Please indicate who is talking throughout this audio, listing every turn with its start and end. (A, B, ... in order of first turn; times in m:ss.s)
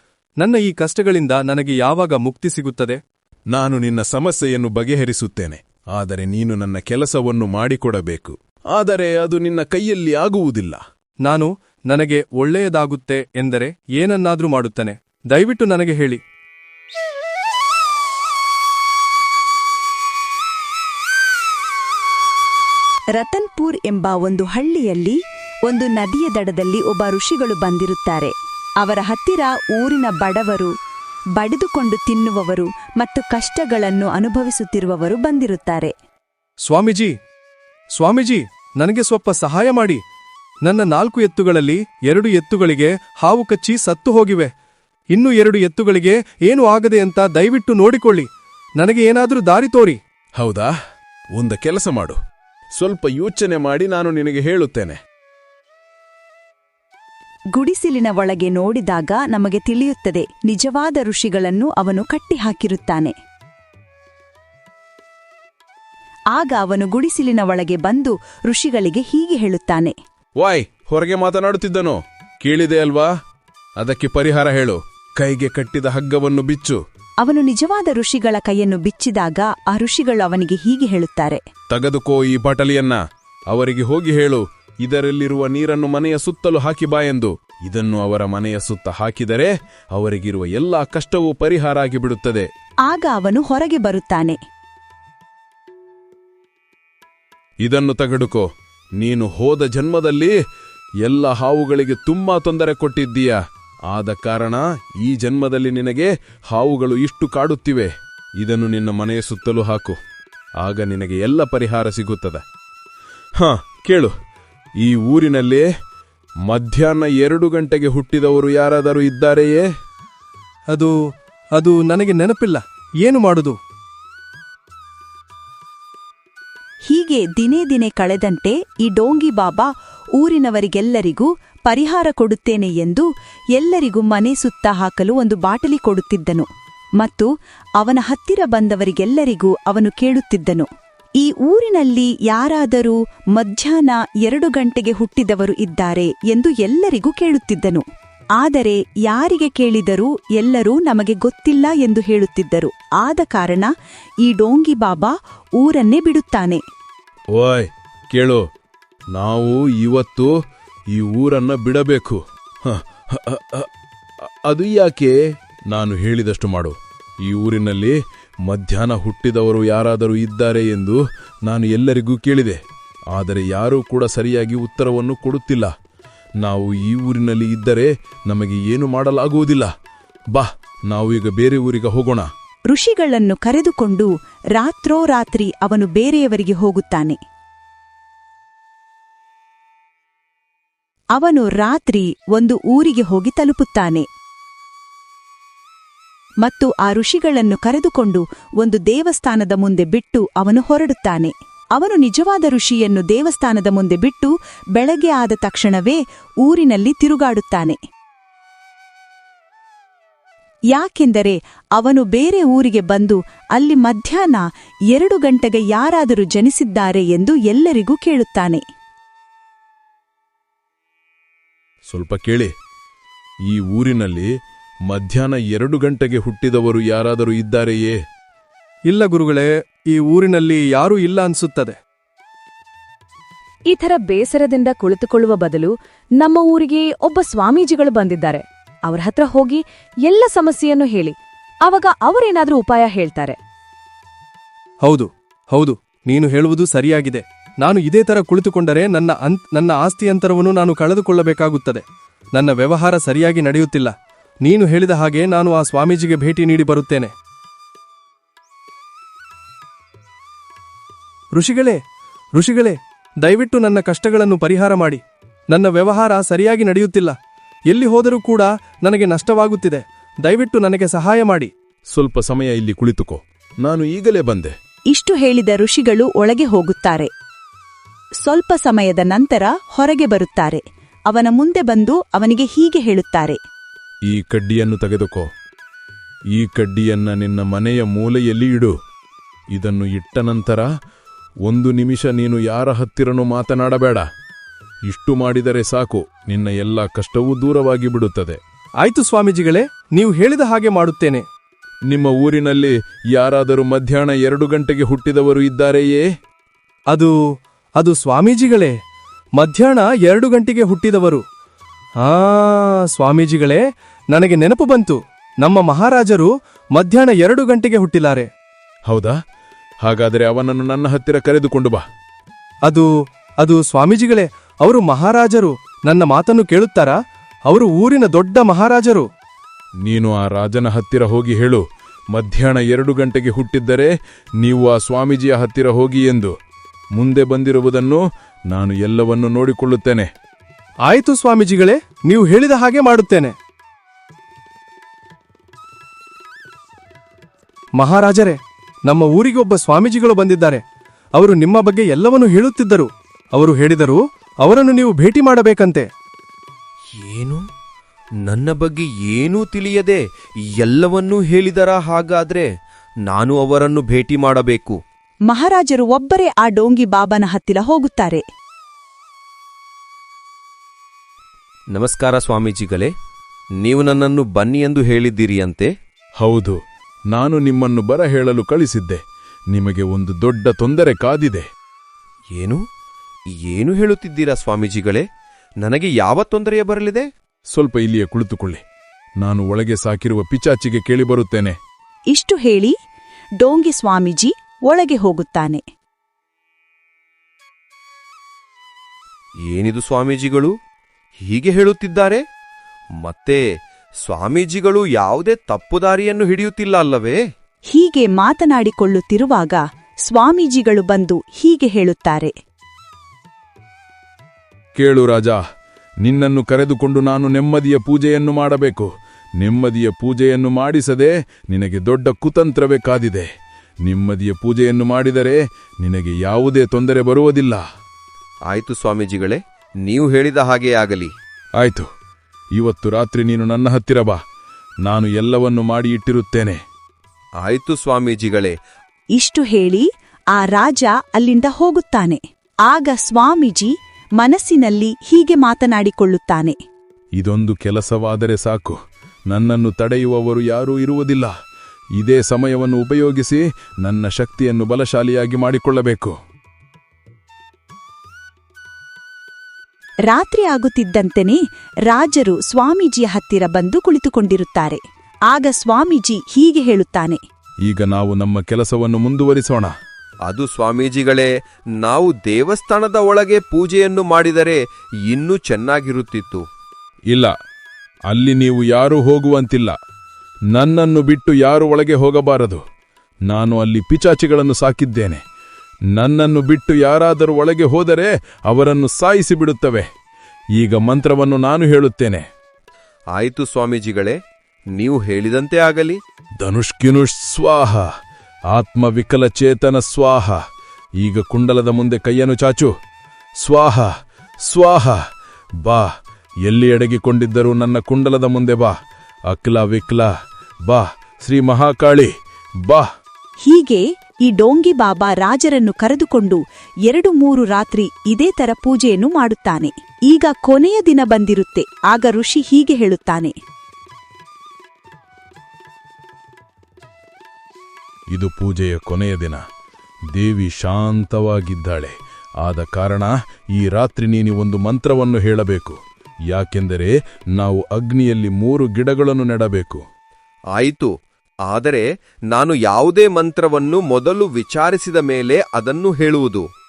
0:00.4-0:03.0 A
0:03.5-0:10.8 B
0:11.2-0:16.2 A
0:23.1-0:30.7 C
0:31.4-0:35.9 C
0:36.6-0:37.1 A
0:38.0-0:40.0 A
0:40.6-0:44.5 A
0:45.1-0:48.3 A
0:48.8-0:50.0 A
0:50.4-0:50.7 B
0:51.3-0:52.2 B
0:52.7-0:55.0 B
0:57.5-1:03.1 C
1:06.3-1:09.9 C
1:10.4-1:13.1 B
1:13.8-1:16.8 B
1:17.2-1:21.4 C
1:21.7-1:32.5 B
1:32.8-1:34.4 C
1:37.6-1:38.5 B
1:39.0-1:40.3 B
1:41.0-1:50.0 B
1:50.6-1:52.4 B
1:53.4-1:54.1 B
1:54.8-1:55.7 B
1:56.4-1:59.6 B
2:01.6-2:03.6 A
2:06.9-2:16.5 C
2:17.0-2:20.7 C
2:21.2-2:27.8 C
2:28.4-2:33.7 C
2:34.2-2:36.6 C
2:37.3-2:38.4 B
2:39.1-2:40.3 B
2:40.9-2:43.7 B
2:44.5-2:45.2 B
2:45.7-2:52.6 B
2:53.1-2:55.7 B
2:56.4-2:59.7 B
3:00.3-3:02.3 B
3:02.7-3:07.2 C
3:11.1-3:14.0 C
3:16.4-3:27.8 C
3:30.7-3:38.6 C
3:41.9-3:42.5 B
3:43.5-3:44.3 B
3:44.9-3:48.0 B
3:48.9-3:51.8 A
3:53.7-4:03.4 D
4:04.8-4:13.9 A
4:14.4-4:17.1 A
4:21.4-4:21.8 A
4:22.4-4:27.1 A
4:27.7-4:31.5 A
4:31.9-4:34.5 B
4:34.9-4:37.1 C
4:38.2-4:43.4 C
4:44.1-4:45.3 B
4:46.3-4:48.7 B
4:49.5-4:50.7 B
4:51.4-4:54.0 B
4:54.9-4:58.4 B
4:58.8-5:01.2 A
5:01.9-5:06.0 B
5:07.8-5:08.7 A
5:09.4-5:11.2 A
5:12.0-5:18.3 A
5:18.9-5:19.2 B
5:19.8-5:21.8 B
5:23.4-5:27.0 A
5:27.5-5:29.1 A
5:29.8-5:36.3 B
5:36.9-5:40.1 B
5:40.9-5:43.3 A
5:47.8-5:50.6 A
5:51.2-5:55.9 A
5:57.0-5:57.4 E
5:58.2-6:00.0 E
6:00.5-6:02.5 E
6:03.1-6:04.8 E
6:05.3-6:08.2 C
6:11.7-6:12.9 E
6:13.6-6:15.7 E
6:16.2-6:16.6 B
6:17.1-6:19.0 B
6:19.5-6:21.4 B
6:23.4-6:25.0 E
6:25.6-6:27.1 E
6:27.5-6:28.6 B
6:29.2-6:31.5 B
6:32.1-6:32.7 C
6:33.4-6:35.6 C
6:39.5-6:40.5 E
6:41.3-6:42.2 E
6:43.0-6:43.4 E
6:44.0-6:47.2 E
6:47.7-6:52.3 C
6:54.7-6:55.4 B
6:56.0-6:58.9 B
6:59.4-7:03.3 B
7:03.8-7:07.6 B
7:08.5-7:11.1 E
7:11.6-7:11.9 B
7:12.5-7:14.2 B
7:14.8-7:16.6 B
7:17.4-7:18.5 E
7:19.1-7:26.6 C
7:27.2-7:28.8 B
7:29.3-7:31.3 B
7:32.0-7:36.2 B
7:40.1-7:47.2 C
7:47.6-7:49.7 B
7:50.3-7:51.3 E
7:51.8-7:56.4 E
7:58.1-7:59.7 B
8:00.5-8:02.6 B
8:03.3-8:05.2 B
8:05.9-8:09.8 B
8:10.6-8:12.2 B
8:13.1-8:14.2 E
8:14.8-8:16.0 E
8:16.4-8:17.9 B
8:18.5-8:20.4 B
8:21.0-8:22.7 B
8:23.4-8:23.9 B
8:24.4-8:25.0 B
8:25.6-8:25.9 B
8:26.4-8:28.7 B
8:29.3-8:30.1 B
8:30.6-8:32.1 B
8:33.4-8:43.3 C
8:48.1-8:49.4 B
8:50.1-8:55.8 B
8:56.3-8:59.8 B
9:00.5-9:00.9 E
9:01.5-9:06.5 E